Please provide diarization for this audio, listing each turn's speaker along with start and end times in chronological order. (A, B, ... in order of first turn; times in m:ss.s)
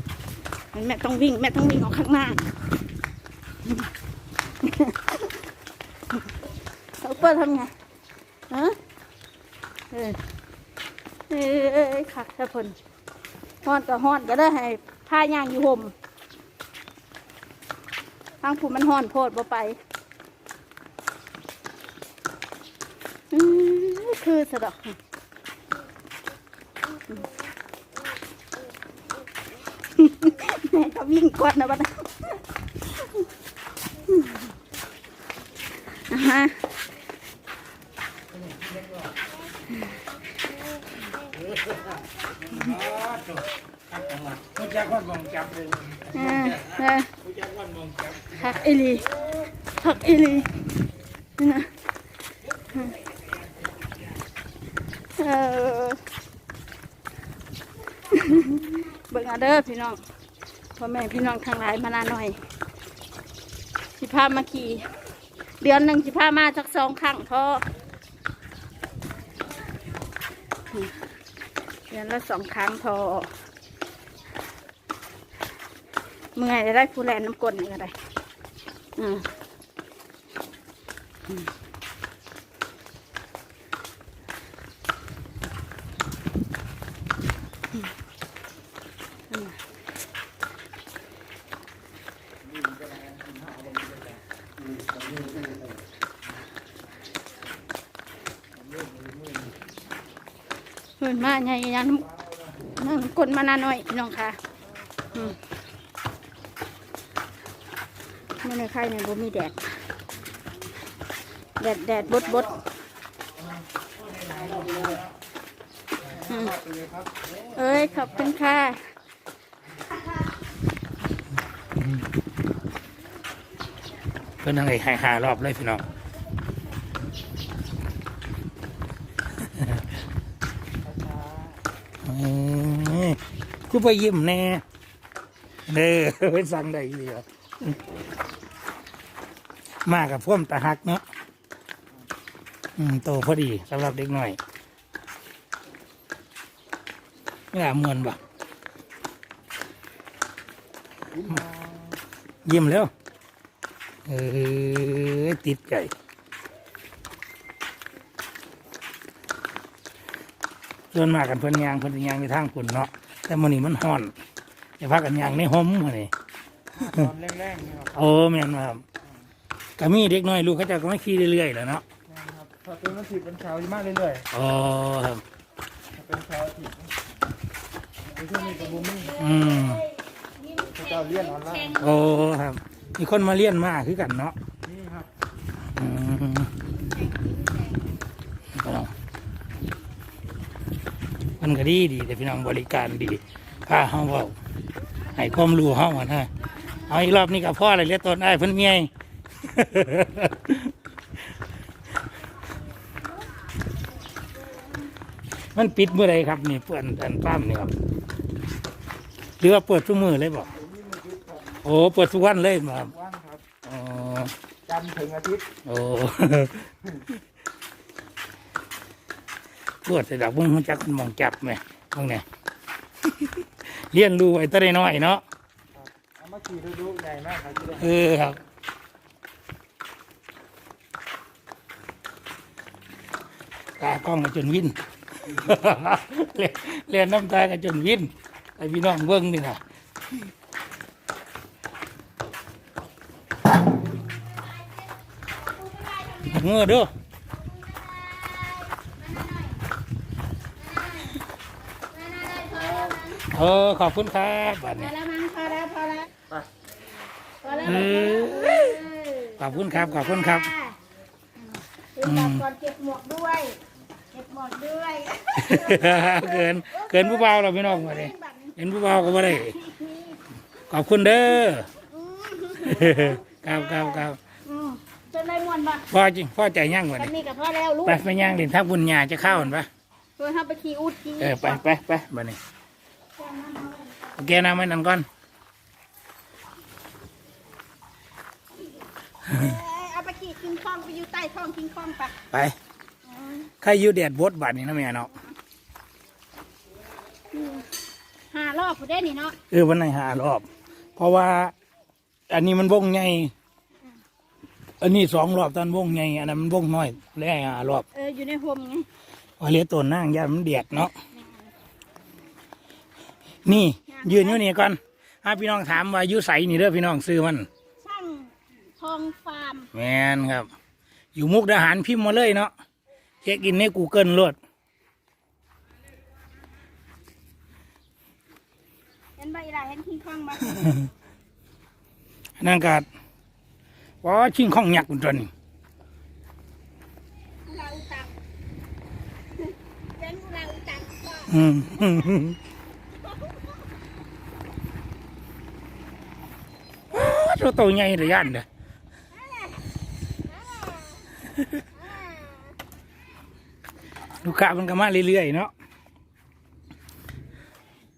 0:00.7-0:02.5 A
0:04.6-0:05.3 A
0:07.0-0:07.7 A
0:08.5-0:08.8 A
0:09.9-0:10.2 A
0:11.3-0:12.8 A
0:13.6-0:15.9 A
0:18.4-0:19.8 A
0:23.3-0:25.0 A
0:30.0-0:33.2 A
0:34.1-0:34.4 A
0:36.1-0:36.6 A
0:42.5-0:48.4 B
0:46.1-0:47.1 A
0:48.3-0:49.2 A
0:49.8-0:50.7 A
0:51.4-0:51.7 A
0:55.2-0:56.0 A
0:58.1-1:00.0 A
1:00.8-1:02.4 A
1:04.0-1:04.9 A
1:05.6-1:07.6 A
1:11.9-1:13.3 A
1:16.4-1:18.0 A
1:19.0-1:19.2 A
1:41.0-1:42.1 A
1:42.7-1:44.4 A
1:45.1-1:45.4 A
1:48.4-1:49.7 A
1:51.6-1:52.6 A
1:54.2-1:55.0 B
1:56.3-1:56.6 A
1:56.5-1:57.1 C
1:57.5-1:58.8 A
2:04.4-2:05.8 B
2:09.4-2:09.8 B
2:10.8-2:11.6 C
2:12.0-2:14.6 B
2:15.7-2:17.8 B
2:19.8-2:21.0 B
2:22.8-2:24.4 B
2:27.5-2:28.2 B
2:31.1-2:31.7 C
2:32.4-2:32.9 B
2:34.1-2:35.9 B
2:40.9-2:44.1 B
2:44.8-2:46.1 B
2:46.8-2:47.1 B
2:46.9-2:47.9 C
2:47.9-2:48.8 B
2:49.8-2:51.8 B
2:52.1-2:54.2 C
2:54.3-2:55.2 B
2:55.9-2:56.9 C
2:58.1-2:59.1 C
2:58.2-3:01.8 A
2:59.1-2:59.8 B
3:00.8-3:01.8 C
3:01.8-3:04.4 B
3:04.6-3:05.1 C
3:05.7-3:06.5 B
3:06.9-3:07.8 A
3:08.6-3:08.9 B
3:11.4-3:14.4 B
3:15.1-3:20.7 B
3:25.5-3:27.8 B
3:29.4-3:30.6 B
3:30.7-3:31.4 C
3:31.6-3:33.0 B
3:33.0-3:33.4 C
3:33.6-3:34.3 B
3:34.7-3:35.5 C
3:35.6-3:36.7 B
3:39.8-3:42.2 B
3:43.1-3:45.2 B
3:46.0-3:47.8 C
3:47.7-3:48.4 B
3:53.8-3:59.6 B
4:05.5-4:06.3 A
4:06.1-4:06.9 B
4:07.6-4:09.6 A
4:10.6-4:11.2 A
4:11.9-4:13.3 A
4:13.2-4:14.9 B
4:14.7-4:16.1 A
4:17.4-4:20.8 A
4:17.6-4:18.8 B
4:19.4-4:20.5 B
4:22.0-4:23.6 A
4:22.0-4:22.4 B
4:24.1-4:28.6 A
4:25.3-4:29.6 B
4:29.3-4:30.2 A
4:30.7-4:31.7 B
4:31.8-4:35.9 A
4:32.6-4:34.2 B
4:35.9-4:37.1 B
4:36.9-4:38.0 A
4:37.8-4:39.7 B
4:40.2-4:41.6 A
4:41.2-4:42.4 B
4:43.2-4:44.1 A
4:44.2-4:45.1 B
4:49.3-4:52.2 A
4:53.1-4:53.5 A
4:53.6-4:55.1 B
4:57.3-4:57.7 A
4:58.3-4:59.4 A
4:59.5-5:01.5 B
5:02.3-5:03.3 B
5:04.8-5:07.9 B
5:07.9-5:08.9 A
5:09.4-5:10.9 B
5:11.1-5:11.4 A
5:13.4-5:17.5 B
5:13.9-5:14.4 A
5:17.8-5:19.7 A
5:19.7-5:20.5 B
5:21.1-5:22.5 B
5:23.2-5:24.4 B
5:29.2-5:30.9 A
5:32.4-5:32.9 B
5:34.0-5:35.3 B
5:37.5-5:38.1 A
5:39.4-5:41.3 A
5:41.2-5:42.4 B
5:46.9-5:48.4 B
5:49.1-5:49.6 A
5:50.5-5:51.0 A
5:51.8-5:52.5 A
5:54.2-5:55.5 B